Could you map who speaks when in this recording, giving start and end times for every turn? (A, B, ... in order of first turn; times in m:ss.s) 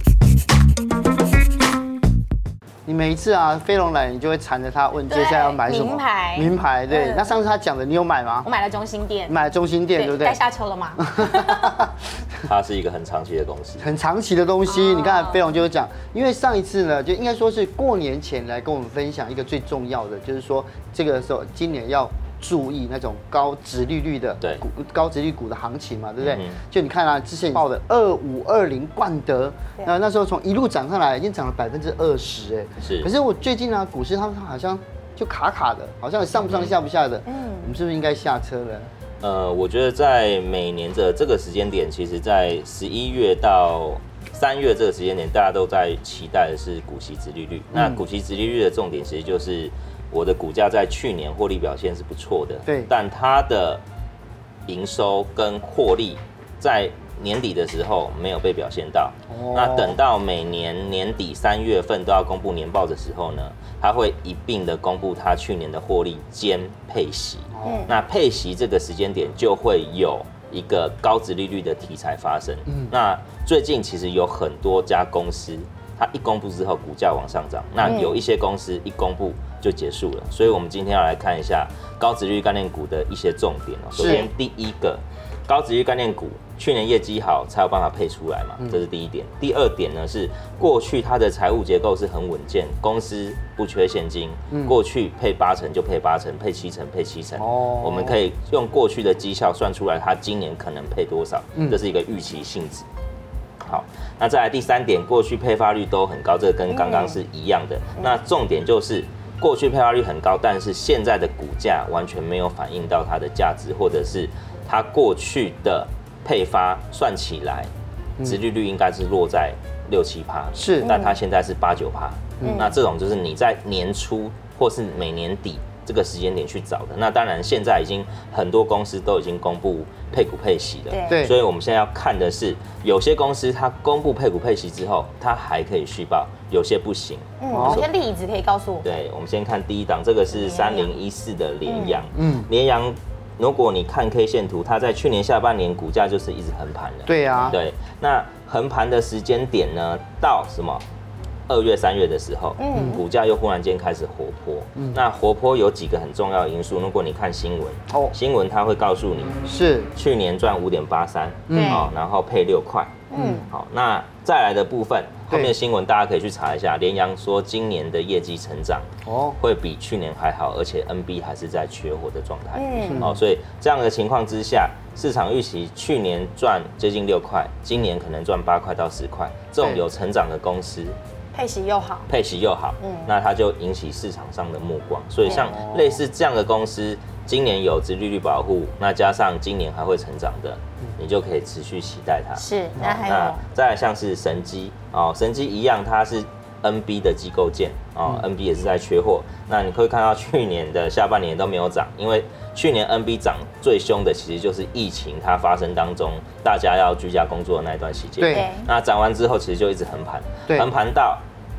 0:02.9-0:08.5 A
0:05.1-0:07.3 B
0:08.4-0:09.4 B
0:09.3-0:10.4 A
0:10.0-0:11.8 B
0:11.0-0:11.9 A
0:12.4-0:13.9 C
0:13.8-0:38.9 A
0:14.7-0:15.4 B
0:26.2-0:26.6 C
0:32.8-0:33.1 C
0:36.4-0:36.7 C
0:37.3-0:37.7 B
0:39.2-0:53.8 C
0:47.7-0:48.0 A
0:52.7-0:52.9 A
0:54.7-1:42.9 C
0:59.3-1:00.0 A
1:07.5-1:07.9 A
1:07.6-1:07.9 B
1:12.7-1:12.9 A
1:17.8-1:18.1 B
1:24.0-1:24.3 A
1:24.0-1:24.3 B
1:34.5-1:34.8 A
1:37.4-1:38.2 A
1:43.6-1:57.7 C
1:46.7-1:47.2 B
1:58.2-2:18.0 C
2:00.6-2:00.9 A
2:00.8-2:01.2 B
2:02.4-2:02.7 A
2:02.4-2:02.8 B
2:10.9-2:11.2 B
2:11.1-2:11.4 A
2:17.4-2:18.9 B
2:17.5-2:17.8 A
2:18.8-2:30.8 C
2:20.3-2:20.9 B
2:21.6-2:22.0 B
2:22.1-2:22.5 A
2:27.1-2:27.6 A
2:31.5-2:39.4 C
2:32.6-2:33.0 B
2:32.7-2:33.0 A
2:37.9-2:38.2 A
2:39.4-2:39.9 A
2:40.0-3:01.0 C
2:41.5-2:41.9 A
2:41.5-2:41.9 B
2:43.1-2:43.5 B
2:43.1-2:43.4 A
2:49.1-2:49.4 A
2:52.6-2:53.1 B
2:52.9-2:53.1 A
3:01.3-3:02.1 B
3:02.1-3:31.2 C
3:02.8-3:03.1 B
3:05.2-3:06.0 A
3:12.4-3:13.4 B
3:28.2-3:28.5 A
3:28.3-3:28.7 B